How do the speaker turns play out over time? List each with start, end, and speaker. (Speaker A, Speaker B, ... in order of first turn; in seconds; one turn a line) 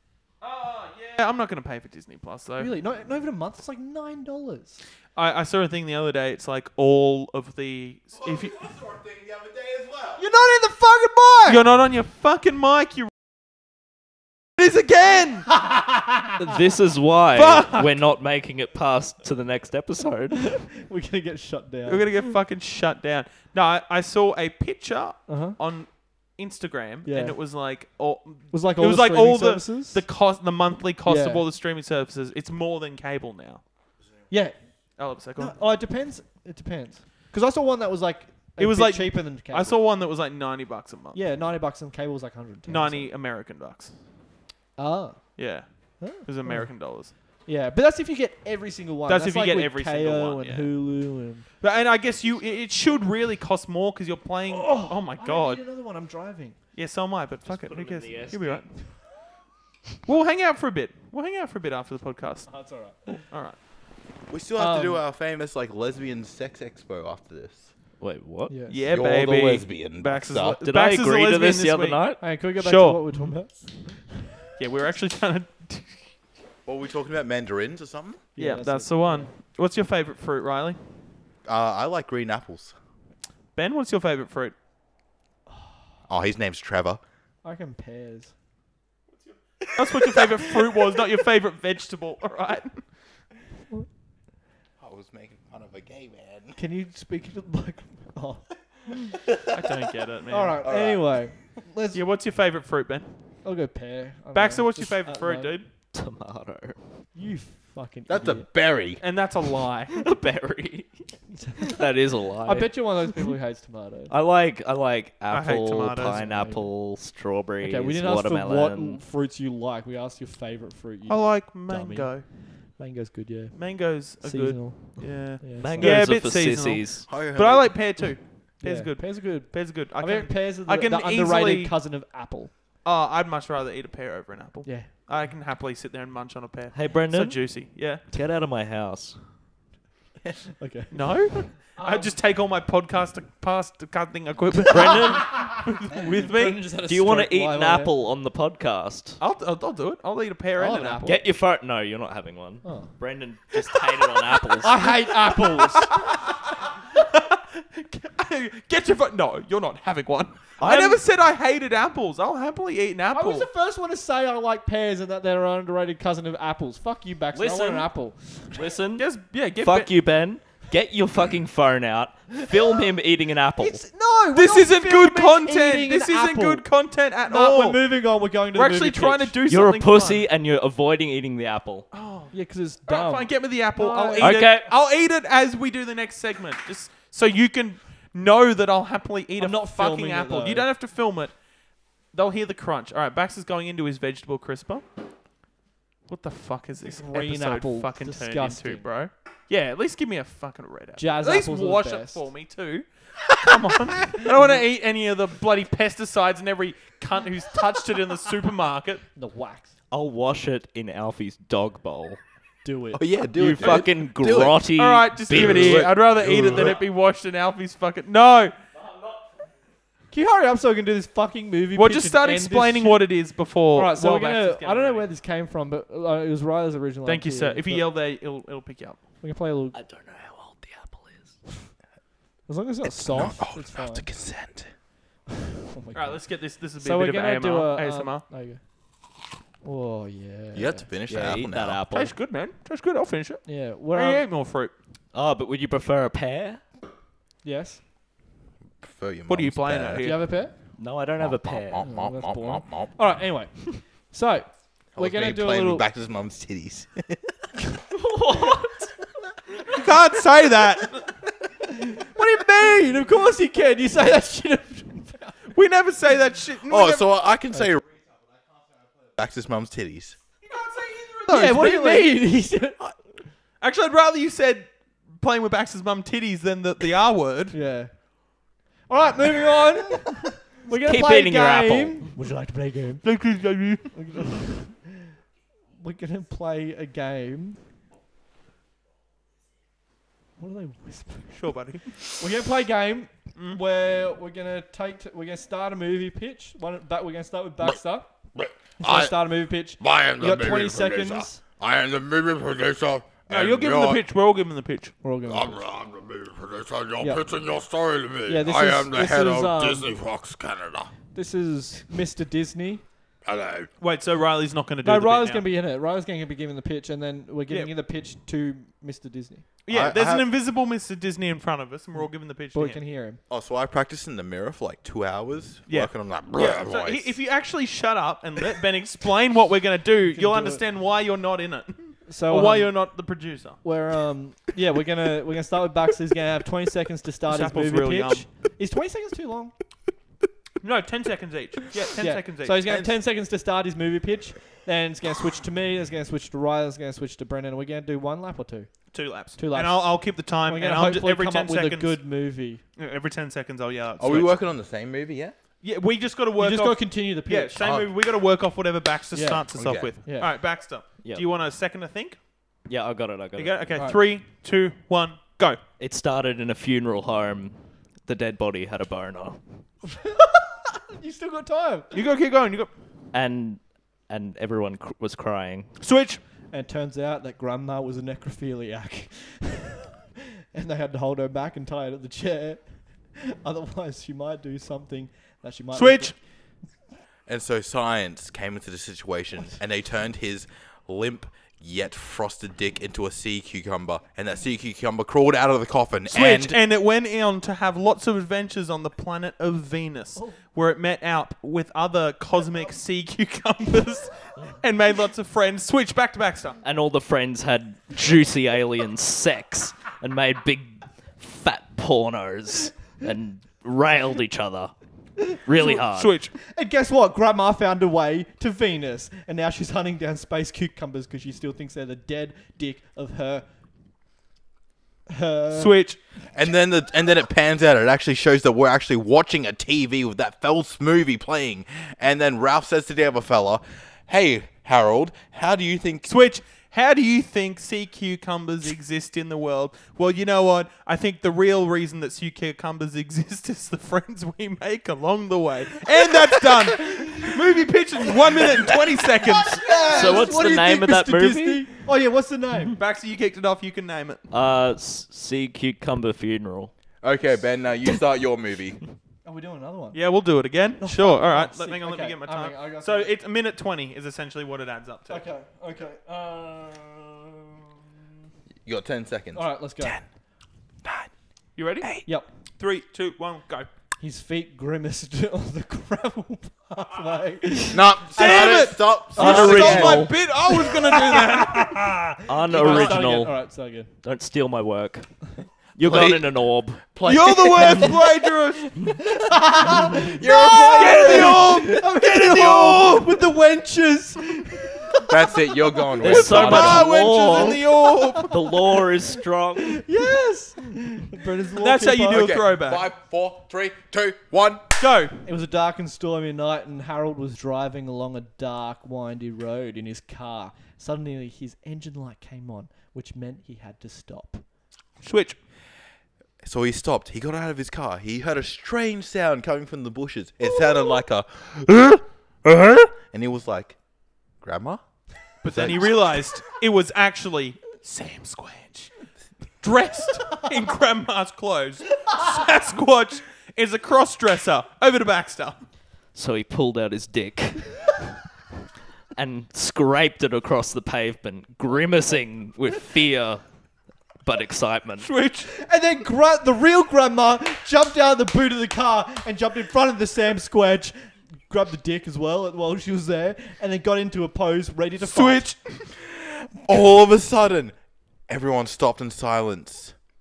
Speaker A: 0.4-2.7
Speaker B: 2.6-4.8
Speaker A: 5.1-8.7
Speaker C: 8.6-10.2
Speaker B: 10.2-11.6
Speaker A: 11.4-13.1
Speaker A: 14.6-15.5
Speaker B: 15.6-16.3
Speaker D: 16.4-20.6
Speaker A: 17.3-17.9
Speaker B: 20.6-22.1
Speaker A: 21.9-33.6
Speaker B: 25.3-25.6
Speaker B: 27.0-27.4
Speaker B: 28.5-30.0
Speaker B: 31.0-31.4
Speaker B: 34.3-34.5
Speaker A: 35.0-35.5
Speaker B: 35.4-39.8
Speaker A: 38.6-41.2
Speaker B: 41.1-43.1
Speaker A: 42.6-43.9
Speaker B: 44.8-45.2
Speaker A: 45.4-47.1
Speaker B: 46.0-46.7
Speaker B: 47.5-51.5
Speaker A: 49.1-50.7
Speaker A: 51.6-55.6
Speaker B: 54.5-56.6
Speaker A: 56.7-58.6
Speaker D: 57.5-58.6
Speaker A: 60.0-62.6
Speaker B: 62.5-63.0
Speaker A: 63.1-63.6
Speaker C: 64.3-67.7
Speaker B: 64.6-65.0
Speaker D: 68.0-68.5
Speaker B: 68.5-68.8
Speaker A: 68.7-72.0
Speaker C: 68.9-70.6
Speaker D: 70.6-72.2
Speaker B: 72.2-74.2
Speaker A: 72.6-73.0
Speaker A: 74.6-76.0
Speaker C: 76.7-78.2
Speaker B: 78.3-79.3
Speaker A: 78.4-80.8
Speaker C: 81.5-82.7
Speaker A: 83.5-84.5
Speaker C: 86.1-87.0
Speaker B: 87.4-88.3
Speaker A: 89.7-92.8
Speaker C: 94.8-96.6
Speaker B: 96.6-99.1
Speaker A: 99.5-100.6
Speaker B: 100.3-102.0
Speaker C: 100.6-101.2
Speaker A: 101.9-103.1
Speaker B: 103.4-105.6
Speaker A: 104.3-105.7
Speaker D: 105.9-106.8
Speaker B: 107.1-108.5
Speaker C: 108.1-109.0
Speaker A: 109.0-110.0
Speaker D: 109.9-112.7
Speaker B: 112.4-114.1
Speaker D: 114.1-119.0
Speaker A: 115.3-116.2
Speaker B: 116.2-116.7
Speaker B: 117.6-122.2
Speaker A: 121.1-122.2
Speaker B: 122.7-126.1
Speaker A: 123.5-131.8
Speaker D: 125.6-127.1
Speaker C: 127.1-128.0
Speaker B: 128.6-132.5
Speaker A: 132.8-138.0
Speaker B: 134.6-134.9
Speaker D: 136.7-137.5
Speaker D: 138.1-139.2
Speaker B: 140.6-142.1
Speaker A: 140.9-146.6
Speaker D: 144.7-145.3
Speaker B: 145.1-147.9
Speaker D: 146.9-149.2
Speaker A: 149.2-151.2
Speaker B: 150.6-151.2
Speaker D: 151.0-154.8
Speaker B: 152.6-152.9
Speaker B: 154.6-156.1
Speaker A: 155.3-163.5
Speaker D: 160.6-161.0
Speaker B: 163.1-168.6
Speaker D: 167.3-167.9
Speaker D: 168.5-169.1
Speaker A: 169.0-169.9
Speaker D: 169.6-173.8
Speaker B: 173.6-176.6
Speaker A: 174.3-177.8
Speaker B: 177.2-179.3
Speaker A: 178.5-180.3
Speaker D: 179.5-181.9
Speaker A: 181.9-182.3
Speaker B: 182.3-184.5
Speaker A: 182.8-191.3
Speaker D: 184.2-184.7
Speaker B: 189.4-190.7
Speaker A: 192.1-194.8
Speaker A: 196.1-209.0
Speaker B: 196.8-198.8
Speaker B: 201.0-202.2
Speaker B: 204.2-204.6
Speaker B: 209.2-209.7
Speaker D: 209.9-212.2
Speaker B: 212.6-213.1
Speaker C: 212.9-214.6
Speaker D: 213.3-215.8
Speaker A: 214.8-218.5
Speaker C: 215.3-216.8
Speaker B: 220.1-223.1
Speaker A: 221.7-225.1
Speaker B: 223.7-227.8
Speaker A: 227.0-229.0
Speaker B: 229.2-229.8
Speaker D: 229.7-231.3
Speaker B: 232.5-234.1
Speaker C: 232.8-234.7
Speaker B: 235.5-236.2
Speaker A: 235.9-238.3
Speaker B: 236.8-238.6
Speaker B: 239.6-240.9
Speaker C: 240.5-241.8
Speaker D: 241.1-242.1
Speaker A: 241.9-244.7
Speaker B: 243.4-244.2
Speaker D: 245.1-246.6
Speaker B: 247.4-247.8
Speaker C: 248.8-250.1
Speaker A: 249.3-250.2
Speaker B: 250.0-250.5
Speaker D: 250.8-251.8
Speaker C: 251.2-252.9
Speaker B: 251.8-255.8
Speaker C: 254.9-257.3
Speaker D: 257.9-258.9
Speaker A: 259.7-261.1
Speaker B: 261.6-265.4
Speaker A: 265.5-267.1
Speaker C: 266.7-267.8
Speaker C: 269.1-270.2
Speaker A: 270.4-272.2
Speaker B: 271.3-272.9
Speaker A: 273.6-277.6
Speaker B: 277.5-277.9
Speaker B: 278.9-283.0
Speaker D: 280.7-282.1
Speaker A: 283.0-283.9
Speaker B: 283.9-284.8
Speaker B: 285.8-287.6
Speaker B: 290.4-291.5
Speaker A: 291.4-291.9
Speaker B: 292.1-298.1
Speaker C: 298.3-299.1
Speaker B: 298.8-301.4
Speaker C: 299.8-304.0
Speaker A: 303.3-304.9
Speaker B: 305.0-305.7
Speaker C: 305.3-310.9
Speaker B: 307.0-307.3
Speaker B: 308.2-309.9
Speaker B: 311.1-312.8
Speaker C: 313.2-313.7
Speaker A: 313.8-315.4
Speaker B: 314.8-319.4
Speaker A: 319.6-322.8
Speaker C: 319.7-320.3
Speaker B: 322.5-323.2
Speaker C: 323.3-327.1
Speaker A: 325.7-333.6
Speaker B: 330.1-330.6
Speaker B: 332.1-332.7
Speaker B: 333.6-339.5
Speaker A: 337.3-338.3
Speaker A: 340.6-342.7
Speaker B: 342.0-348.7
Speaker C: 342.7-342.9
Speaker A: 348.9-352.0
Speaker B: 349.4-352.6
Speaker A: 352.8-354.4
Speaker C: 354.0-355.3
Speaker A: 355.6-362.2
Speaker B: 356.4-357.6
Speaker C: 357.6-357.9
Speaker B: 359.1-359.5
Speaker C: 359.5-359.9
Speaker B: 360.0-360.3
Speaker D: 362.7-363.6
Speaker A: 363.4-365.6
Speaker B: 363.7-364.0
Speaker D: 365.8-369.4
Speaker B: 369.9-371.9
Speaker A: 371.9-372.7
Speaker D: 373.1-375.7
Speaker A: 375.8-376.2
Speaker B: 376.5-379.9
Speaker B: 380.5-386.1
Speaker A: 385.7-386.1
Speaker C: 387.3-396.6
Speaker A: 396.1-406.6
Speaker D: 406.6-414.7
Speaker D: 415.3-416.1
Speaker A: 415.6-416.3
Speaker B: 416.5-423.4
Speaker B: 425.1-425.7
Speaker A: 425.5-426.0
Speaker C: 426.3-436.1
Speaker A: 436.1-450.0
Speaker B: 446.8-447.4
Speaker B: 448.1-448.7
Speaker B: 449.2-452.8
Speaker C: 449.5-450.4
Speaker D: 449.9-451.7
Speaker A: 452.7-454.2
Speaker D: 454.3-456.7
Speaker C: 457.0-458.8
Speaker B: 459.2-460.0
Speaker A: 459.9-465.2
Speaker B: 460.8-463.1
Speaker B: 465.1-467.7
Speaker C: 468.6-470.0
Speaker B: 469.3-470.0
Speaker C: 470.8-471.1
Speaker A: 471.6-472.0
Speaker A: 472.6-473.7
Speaker B: 474.0-483.9
Speaker C: 477.7-480.1
Speaker A: 478.1-481.9
Speaker D: 479.2-480.1
Speaker D: 482.3-483.4
Speaker A: 482.5-483.1
Speaker D: 484.0-485.1
Speaker D: 485.8-486.8
Speaker C: 485.8-486.3
Speaker C: 486.9-488.1
Speaker A: 487.0-488.7
Speaker B: 487.8-499.1
Speaker C: 489.8-491.7
Speaker A: 490.7-493.2
Speaker C: 495.1-496.9
Speaker A: 496.0-498.4
Speaker D: 496.0-499.8
Speaker B: 499.6-502.4
Speaker A: 501.6-502.9
Speaker C: 502.1-504.6
Speaker A: 504.8-505.2
Speaker B: 505.2-514.4
Speaker A: 515.0-515.4
Speaker C: 516.4-523.8
Speaker C: 524.4-524.8
Speaker A: 525.4-528.9
Speaker C: 525.4-526.0
Speaker A: 529.6-535.6
Speaker D: 536.1-537.9
Speaker D: 539.2-543.4
Speaker D: 544.2-545.1
Speaker A: 545.0-545.5
Speaker B: 545.5-551.0
Speaker B: 551.5-555.5
Speaker A: 555.0-555.9
Speaker C: 556.0-557.7
Speaker C: 558.3-559.9